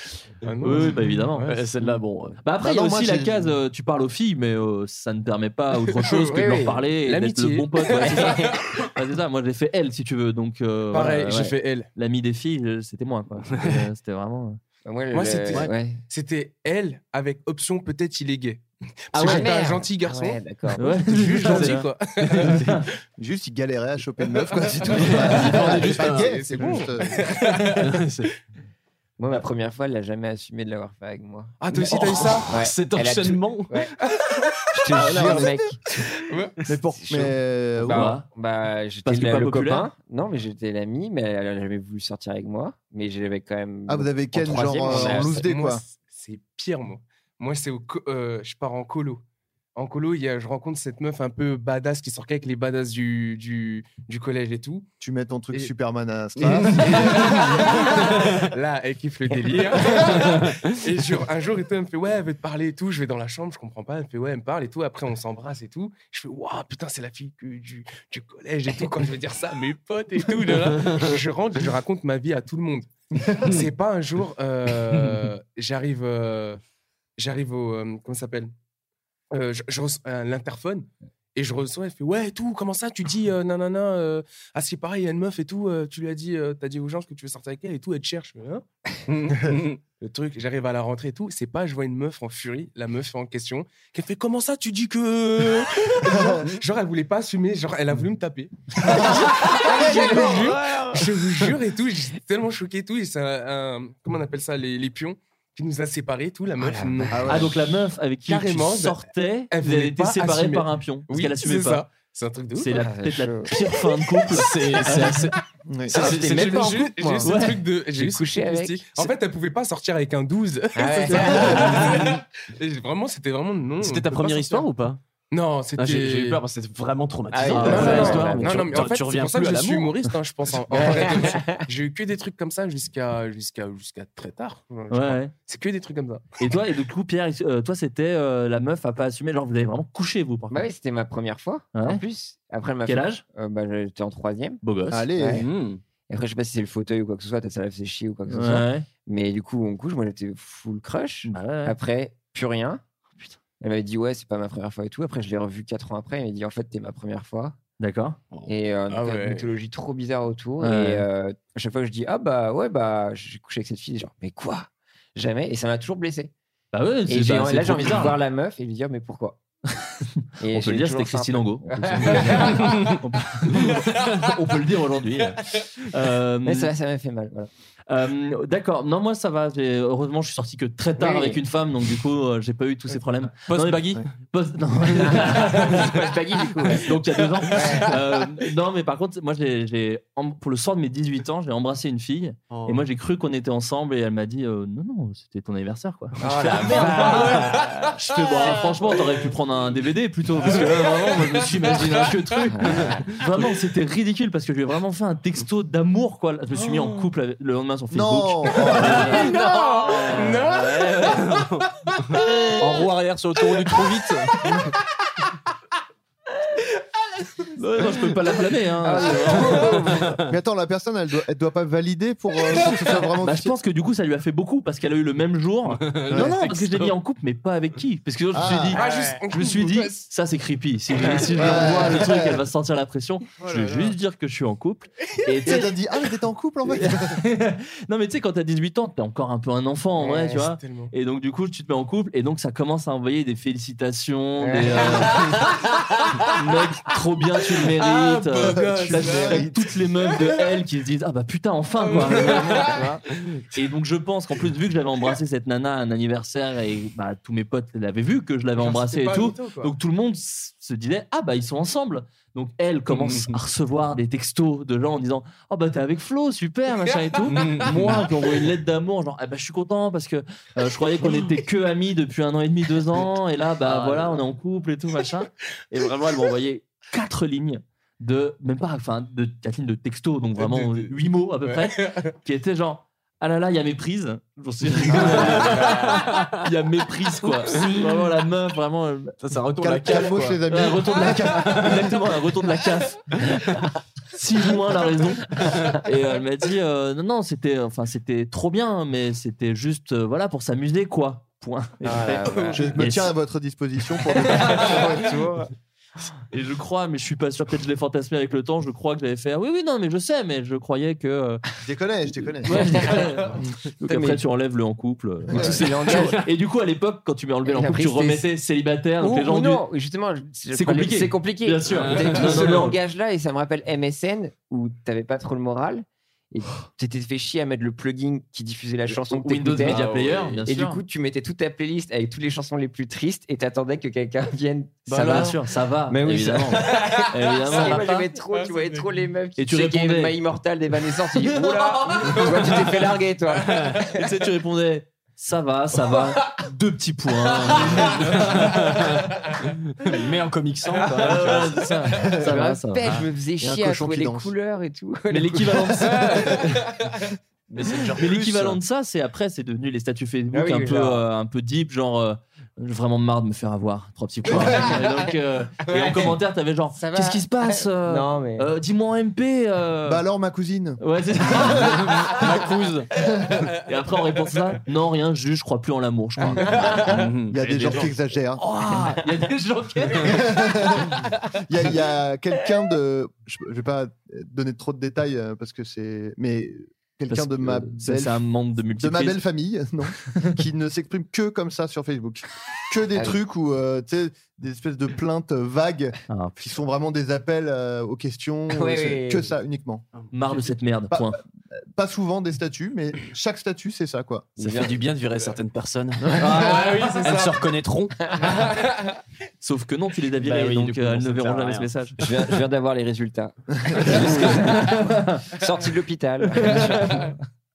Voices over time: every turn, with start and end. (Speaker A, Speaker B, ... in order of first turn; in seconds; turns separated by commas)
Speaker A: 0.4-1.5, Speaker B: 0.6-1.6, Speaker C: 0.6-2.4, Speaker B: 2.4-14.6, Speaker D: 2.6-3.4, Speaker A: 5.9-8.7, Speaker E: 6.3-6.8, Speaker E: 8.1-8.5, Speaker A: 10.9-11.9, Speaker C: 13.6-13.8, Speaker E: 14.8-16.0, Speaker A: 15.1-22.6, Speaker B: 19.1-19.5, Speaker E: 19.2-20.8, Speaker B: 20.8-21.9, Speaker C: 21.3-22.9, Speaker B: 22.5-22.8, Speaker D: 23.2-27.5, Speaker A: 24.6-28.0, Speaker C: 24.9-26.8, Speaker C: 27.5-28.3, Speaker E: 29.2-33.9, Speaker A: 31.6-32.5, Speaker C: 31.9-33.8, Speaker A: 34.0-34.6, Speaker E: 34.7-35.8, Speaker D: 35.0-35.6, Speaker A: 36.1-36.5, Speaker D: 36.6-38.2, Speaker E: 36.9-45.5, Speaker B: 37.9-38.3, Speaker B: 39.1-39.9, Speaker D: 43.9-45.8, Speaker A: 44.8-49.2, Speaker A: 49.8-54.9, Speaker D: 55.0-57.7, Speaker C: 56.4-58.5, Speaker A: 56.7-76.6, Speaker C: 59.4-60.7, Speaker C: 70.6-71.2, Speaker C: 73.2-73.7, Speaker C: 74.9-75.3, Speaker A: 77.2-78.5, Speaker A: 79.3-88.6, Speaker C: 89.1-89.8, Speaker A: 89.3-107.5, Speaker D: 96.0-96.4, Speaker C: 98.9-101.4, Speaker D: 99.9-100.2, Speaker E: 106.6-107.1, Speaker D: 107.1-107.5, Speaker B: 107.3-111.8, Speaker A: 108.2-112.8, Speaker B: 112.6-115.3, Speaker E: 112.8-113.5, Speaker C: 114.3-116.9, Speaker D: 115.7-116.0, Speaker E: 116.0-117.4, Speaker A: 116.0-124.7, Speaker B: 117.2-117.7, Speaker E: 117.9-119.1, Speaker E: 120.8-121.9, Speaker B: 121.1-121.9, Speaker C: 121.4-122.1, Speaker C: 123.8-125.0, Speaker A: 125.3-126.4, Speaker C: 125.8-130.0, Speaker E: 127.3-128.7, Speaker A: 127.5-136.2, Speaker B: 127.5-128.9, Speaker C: 130.7-131.3, Speaker E: 130.7-131.6, Speaker B: 134.9-135.3, Speaker B: 136.4-140.7, Speaker E: 140.5-144.6, Speaker B: 141.8-142.0, Speaker B: 142.9-143.2, Speaker B: 144.6-145.1, Speaker D: 144.9-145.5, Speaker E: 145.2-145.4, Speaker C: 145.4-145.8, Speaker E: 146.1-152.8, Speaker B: 148.3-148.9, Speaker B: 151.3-151.8, Speaker E: 153.6-157.6, Speaker B: 157.8-158.2, Speaker C: 158.3-159.5, Speaker E: 158.5-166.3, Speaker B: 160.6-161.1, Speaker B: 166.7-168.2, Speaker E: 167.1-169.4, Speaker B: 169.8-176.7, Speaker E: 170.4-172.8, Speaker C: 172.6-173.0, Speaker E: 176.4-177.5, Speaker B: 177.9-185.9, Speaker E: 181.0-181.4, Speaker C: 183.5-184.0, Speaker E: 185.1-186.9, Speaker B: 186.7-211.3, Speaker E: 187.5-187.9, Speaker C: 192.5-192.8, Speaker E: 196.2-197.6, Speaker C: 196.3-197.6, Speaker A: 200.5-202.1, Speaker E: 202.5-203.0, Speaker C: 202.6-203.5, Speaker D: 207.9-209.3, Speaker A: 209.0-211.3, Speaker C: 211.0-214.4, Speaker A: 211.9-212.6, Speaker B: 217.6-219.8, Speaker E: 218.8-220.1, Speaker C: 219.9-220.3, Speaker D: 220.2-223.6, Speaker B: 223.2-235.7, Speaker C: 225.7-226.9, Speaker D: 226.1-226.4, Speaker D: 228.3-228.8, Speaker A: 228.7-230.1, Speaker D: 231.3-232.4, Speaker A: 233.4-233.9, Speaker D: 235.5-237.2, Speaker B: 236.7-245.4, Speaker E: 240.0-240.4, Speaker A: 240.3-240.9, Speaker E: 244.4-244.9, Speaker A: 244.9-245.5, Speaker B: 246.3-252.8, Speaker A: 247.6-249.5, Speaker D: 248.6-249.5, Speaker A: 250.1-250.4, Speaker A: 251.8-252.8, Speaker E: 252.5-253.0, Speaker B: 253.5-289.2, Speaker A: 258.6-259.7, Speaker C: 262.9-263.4, Speaker C: 267.3-268.1, Speaker A: 267.4-267.7, Speaker A: 280.4-282.1, Speaker C: 284.7-286.4, Speaker A: 285.1-286.1, Speaker C: 287.5-288.1, Speaker C: 289.2-290.4, Speaker D: 289.6-292.0, Speaker B: 290.5-293.6, Speaker B: 294.1-303.1, Speaker E: 301.8-302.7, Speaker D: 302.6-305.0, Speaker E: 304.5-305.5, Speaker B: 306.3-311.4, Speaker D: 311.6-313.0, Speaker B: 312.4-319.6, Speaker E: 312.5-313.0, Speaker E: 313.9-314.2, Speaker E: 315.3-316.2, Speaker D: 315.4-315.6, Speaker E: 317.5-318.3, Speaker E: 319.0-329.8, Speaker B: 320.5-322.8, Speaker C: 321.7-322.7, Speaker B: 329.1-330.8, Speaker C: 329.5-330.4, Speaker E: 330.5-343.7, Speaker C: 334.9-335.4, Speaker B: 334.9-338.1, Speaker A: 336.7-337.1, Speaker A: 338.3-338.9, Speaker B: 339.4-340.2, Speaker B: 341.2-342.6, Speaker C: 343.5-343.8, Speaker B: 343.9-348.6, Speaker C: 347.5-351.7, Speaker B: 351.0-353.0, Speaker E: 352.2-355.9, Speaker D: 353.4-354.3, Speaker B: 355.1-356.7, Speaker C: 357.5-358.6, Speaker B: 358.0-370.0, Speaker E: 360.3-361.1, Speaker E: 366.8-368.5, Speaker D: 369.9-370.8, Speaker B: 370.8-372.4, Speaker D: 371.3-371.7, Speaker C: 371.5-372.9, Speaker B: 373.6-377.1, Speaker C: 376.5-378.0, Speaker D: 377.3-378.4, Speaker B: 378.4-380.4, Speaker D: 380.0-388.2, Speaker B: 387.1-389.2, Speaker D: 388.8-399.9, Speaker B: 390.1-390.3, Speaker B: 396.1-396.5, Speaker E: 398.5-399.4, Speaker C: 400.0-400.5, Speaker B: 400.1-401.2, Speaker D: 400.9-404.4, Speaker C: 404.4-408.4, Speaker E: 404.4-404.7, Speaker D: 406.1-406.4, Speaker B: 406.2-407.0, Speaker A: 406.5-407.2, Speaker B: 409.4-412.0, Speaker C: 410.2-412.1, Speaker E: 412.0-417.1, Speaker B: 413.8-415.3, Speaker B: 416.4-417.1